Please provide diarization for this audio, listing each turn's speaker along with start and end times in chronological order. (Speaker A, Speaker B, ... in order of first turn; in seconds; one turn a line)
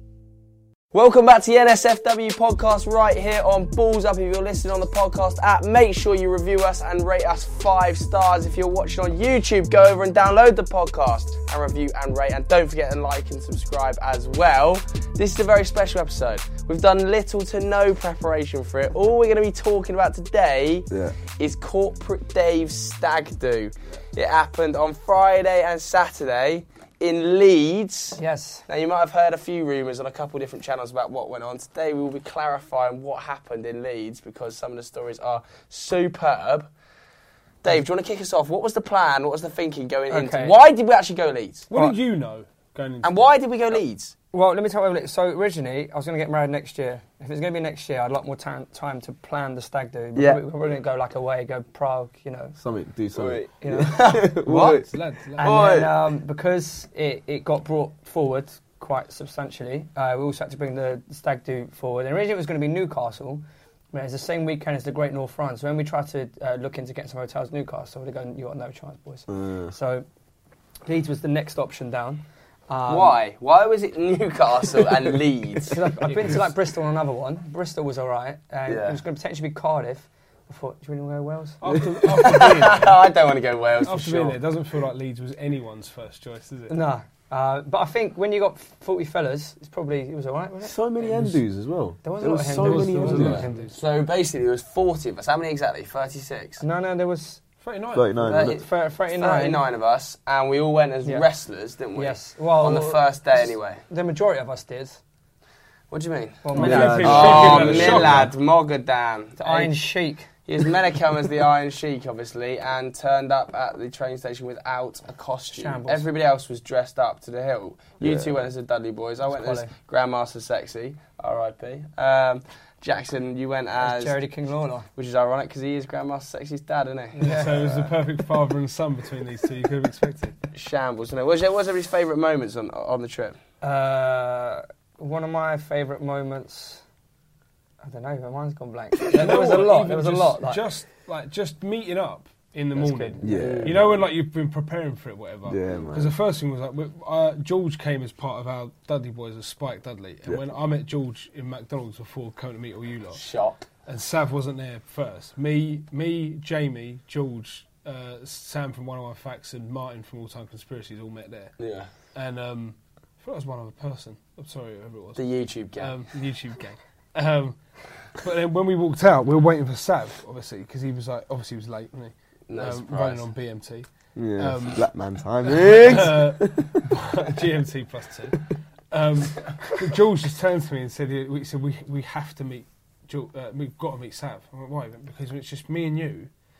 Speaker A: 0.9-36.7
Speaker B: 20.9-21.2
Speaker C: 28.2-28.6
Speaker A: 37.6-41.7
Speaker C: 40.1-40.5
Speaker D: 41.7-43.2
Speaker A: 43.0-44.1
Speaker C: 44.3-52.6
Speaker A: 50.1-50.4
Speaker B: 52.6-54.9
Speaker A: 53.1-54.3
Speaker C: 53.6-54.8
Speaker D: 54.5-55.6
Speaker C: 55.4-70.1
Speaker B: 55.4-55.9
Speaker A: 55.5-55.8
Speaker B: 69.3-69.7
Speaker C: 70.9-73.2
Speaker A: 72.9-75.9
Speaker C: 75.6-81.6
Speaker D: 76.0-76.5
Speaker A: 78.7-79.0
Speaker D: 81.6-83.0
Speaker A: 82.1-84.4
Speaker D: 83.8-86.8
Speaker C: 86.7-91.4
Speaker B: 90.6-93.5
Speaker C: 92.0-93.8
Speaker D: 92.6-93.8
Speaker A: 93.1-96.6
Speaker C: 96.6-97.4
Speaker D: 97.6-98.1
Speaker B: 97.9-98.6
Speaker A: 98.2-103.8
Speaker C: 98.4-99.6
Speaker C: 102.0-105.0
Speaker A: 105.9-109.8
Speaker C: 106.4-107.7
Speaker D: 106.5-108.3
Speaker B: 106.6-108.3
Speaker C: 109.4-110.3
Speaker A: 110.5-124.2
Speaker C: 115.5-116.1
Speaker B: 118.0-118.3
Speaker C: 119.3-119.7
Speaker C: 123.8-124.9
Speaker A: 125.0-127.6
Speaker C: 127.2-127.6
Speaker D: 127.2-130.4
Speaker A: 130.5-133.4
Speaker C: 133.6-136.8
Speaker C: 137.8-140.7
Speaker D: 139.1-153.2
Speaker C: 142.7-143.6
Speaker B: 143.2-144.1
Speaker A: 143.4-143.8
Speaker B: 145.4-146.2
Speaker A: 153.1-153.7
Speaker D: 153.9-161.5
Speaker A: 161.6-161.9
Speaker D: 162.2-165.2
Speaker A: 165.2-166.0
Speaker D: 165.8-167.6
Speaker D: 168.2-174.8
Speaker A: 172.5-173.3
Speaker B: 174.2-176.8
Speaker D: 175.5-186.3